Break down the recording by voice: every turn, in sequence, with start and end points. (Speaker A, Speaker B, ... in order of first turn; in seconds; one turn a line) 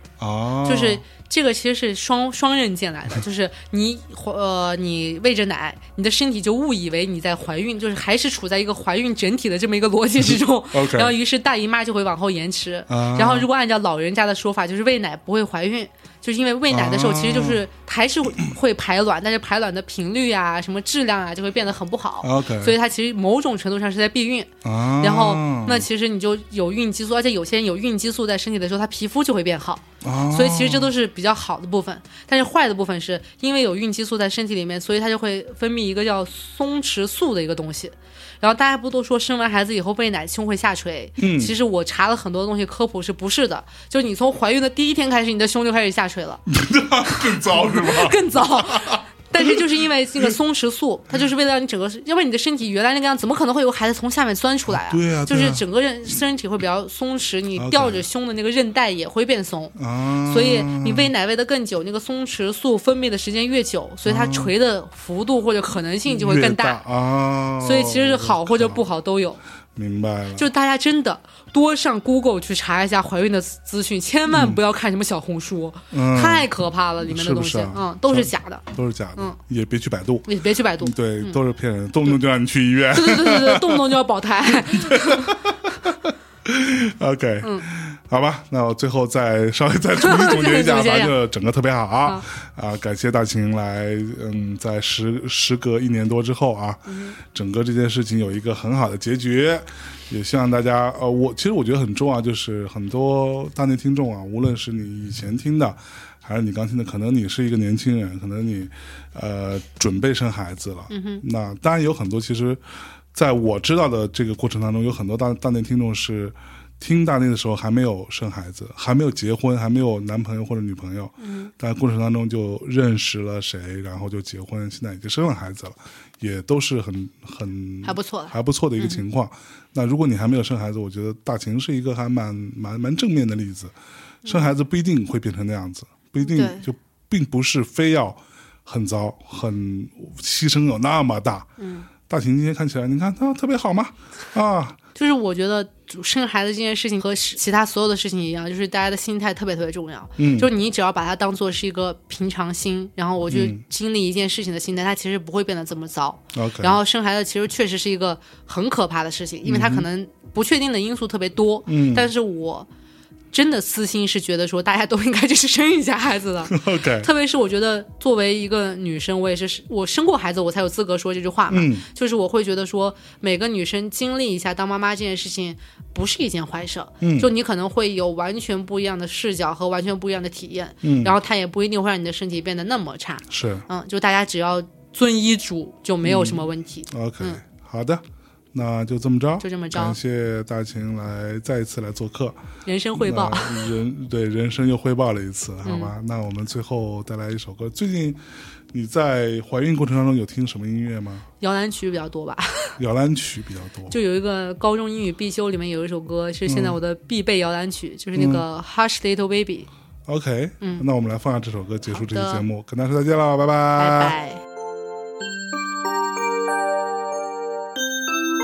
Speaker A: 0.2-1.0
Speaker B: 0.6-46.4
Speaker A: 10.2-11.1
Speaker A: 12.9-13.5
Speaker A: 16.7-17.6
Speaker A: 22.2-22.7
Speaker A: 24.6-25.9
Speaker A: 30.0-30.9
Speaker A: 41.2-41.5
Speaker A: 46.5-49.6
Speaker B: 47.0-59.7
Speaker A: 54.7-55.6
Speaker A: 57.5-58.1
Speaker A: 59.8-61.1
Speaker B: 60.2-66.8
Speaker A: 64.0-64.5
Speaker A: 66.1-68.8
Speaker B: 67.6-69.4
Speaker A: 69.8-70.5
Speaker B: 70.3-78.6
Speaker A: 74.3-74.6
Speaker A: 75.9-76.5
Speaker A: 77.0-80.3
Speaker B: 80.2-81.4
Speaker A: 80.8-83.9
Speaker B: 82.9-85.4
Speaker A: 84.7-112.6
Speaker B: 87.4-87.7
Speaker B: 90.0-91.1
Speaker B: 96.9-97.2
Speaker B: 110.9-111.2
Speaker A: 113.1-133.7
Speaker B: 121.2-121.5
Speaker B: 127.8-129.0
Speaker A: 134.2-141.5
Speaker B: 136.2-136.7
Speaker B: 141.6-141.9
Speaker A: 142.1-144.8
Speaker B: 144.9-162.7
Speaker A: 150.2-150.5
Speaker A: 153.3-153.6
Speaker A: 156.3-156.8
Speaker A: 159.4-159.8
Speaker A: 161.7-162.1
Speaker B: 163.3-187.4
Speaker A: 166.5-167.1
Speaker A: 171.5-171.8
Speaker A: 177.0-177.3
Speaker A: 180.8-181.1
Speaker A: 183.3-183.7
Speaker A: 186.0-192.4
Speaker B: 189.4-190.0
Speaker B: 192.6-193.7
Speaker A: 192.9-198.2
Speaker B: 195.6-195.9
Speaker A: 198.7-201.3
Speaker B: 201.4-202.8
Speaker A: 202.8-204.0
Speaker B: 203.9-209.7
Speaker A: 206.5-206.8
Speaker A: 208.1-208.4
Speaker A: 210.1-214.1
Speaker B: 211.9-212.4
Speaker B: 213.8-214.4